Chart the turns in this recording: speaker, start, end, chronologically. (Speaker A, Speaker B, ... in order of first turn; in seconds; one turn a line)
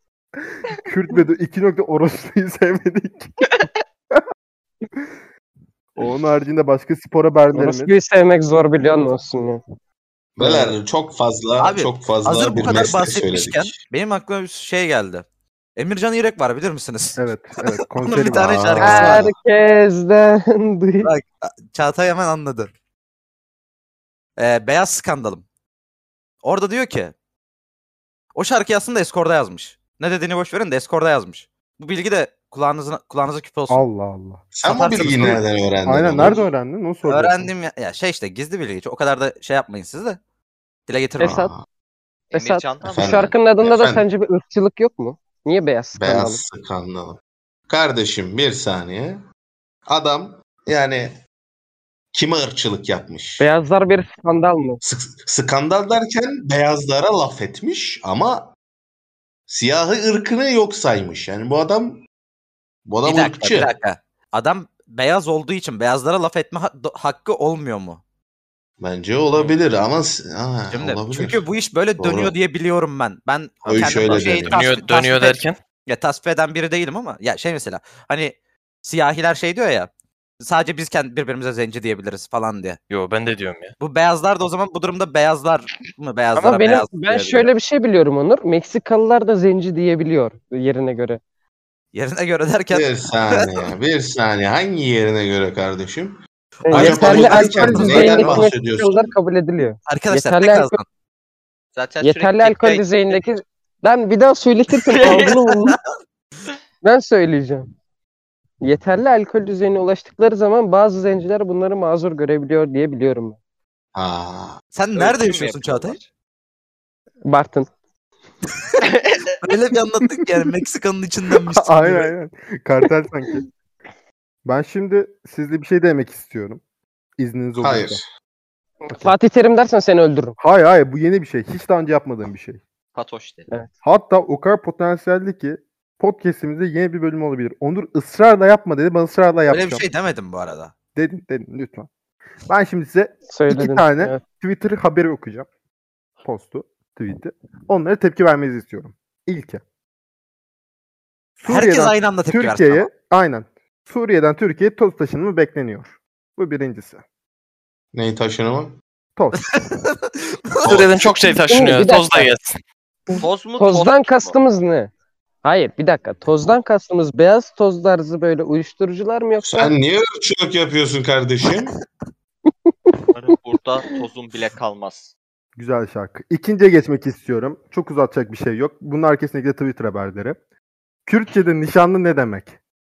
Speaker A: 0.5-3.4
Speaker B: 3.4-3.7
Speaker A: 6.0-7.9
Speaker C: 7.5-9.6
Speaker D: 10.4-13.8
Speaker A: 10.4-10.8
Speaker E: 11.6-15.2
Speaker E: 15.8-19.2
Speaker A: 17.2-19.3
Speaker D: 18.4-19.2
Speaker C: 18.8-21.1
Speaker E: 21.0-22.7
Speaker E: 24.4-25.4
Speaker E: 26.4-27.1
Speaker E: 28.3-33.9
Speaker A: 33.7-34.4
Speaker D: 34.5-36.4
Speaker E: 34.6-35.4
Speaker A: 35.0-37.5
Speaker E: 37.0-40.2
Speaker E: 40.9-41.4
Speaker C: 41.2-41.5
Speaker D: 41.2-41.6
Speaker B: 42.3-43.2
Speaker C: 42.3-46.4
Speaker D: 42.9-44.0
Speaker D: 46.0-49.2
Speaker D: 49.9-51.1
Speaker D: 52.1-53.4
Speaker C: 53.4-54.8
Speaker D: 54.8-58.5
Speaker D: 59.5-62.0
Speaker D: 62.9-63.7
Speaker E: 63.0-68.0
Speaker D: 68.8-71.4
Speaker E: 70.7-79.9
Speaker D: 72.0-72.3
Speaker D: 73.6-74.6
Speaker F: 73.7-75.6
Speaker E: 80.4-82.8
Speaker F: 82.9-83.7
Speaker E: 83.8-87.5
Speaker C: 86.3-91.2
Speaker E: 91.9-93.7
Speaker D: 92.7-99.1
Speaker C: 96.6-100.7
Speaker E: 96.7-98.5
Speaker E: 99.9-100.8
Speaker B: 101.7-103.1
Speaker C: 102.0-105.8
Speaker B: 104.9-105.4
Speaker C: 106.8-107.7
Speaker C: 108.6-113.4
Speaker D: 113.9-114.6
Speaker E: 114.7-116.0
Speaker B: 115.0-116.0
Speaker C: 117.2-117.7
Speaker B: 119.0-119.3
Speaker E: 119.4-122.1
Speaker A: 121.5-123.4
Speaker A: 124.4-126.6
Speaker A: 127.2-128.0
Speaker D: 127.6-128.1
Speaker C: 128.8-130.4
Speaker A: 130.4-132.6
Speaker B: 132.9-133.5
Speaker A: 133.8-139.8
Speaker E: 139.5-140.7
Speaker A: 140.9-141.9
Speaker A: 142.5-145.5
Speaker C: 143.3-144.2
Speaker A: 146.2-149.6
Speaker A: 151.4-157.0
Speaker E: 151.4-152.9
Speaker D: 157.9-158.8
Speaker A: 159.2-159.4
Speaker E: 159.4-160.8
Speaker D: 160.6-161.2
Speaker F: 160.6-162.6
Speaker C: 161.5-162.3
Speaker C: 163.1-164.9
Speaker B: 163.2-164.3
Speaker C: 165.4-169.7
Speaker D: 169.4-171.8
Speaker B: 173.1-175.1
Speaker A: 175.6-180.4
Speaker A: 181.1-182.5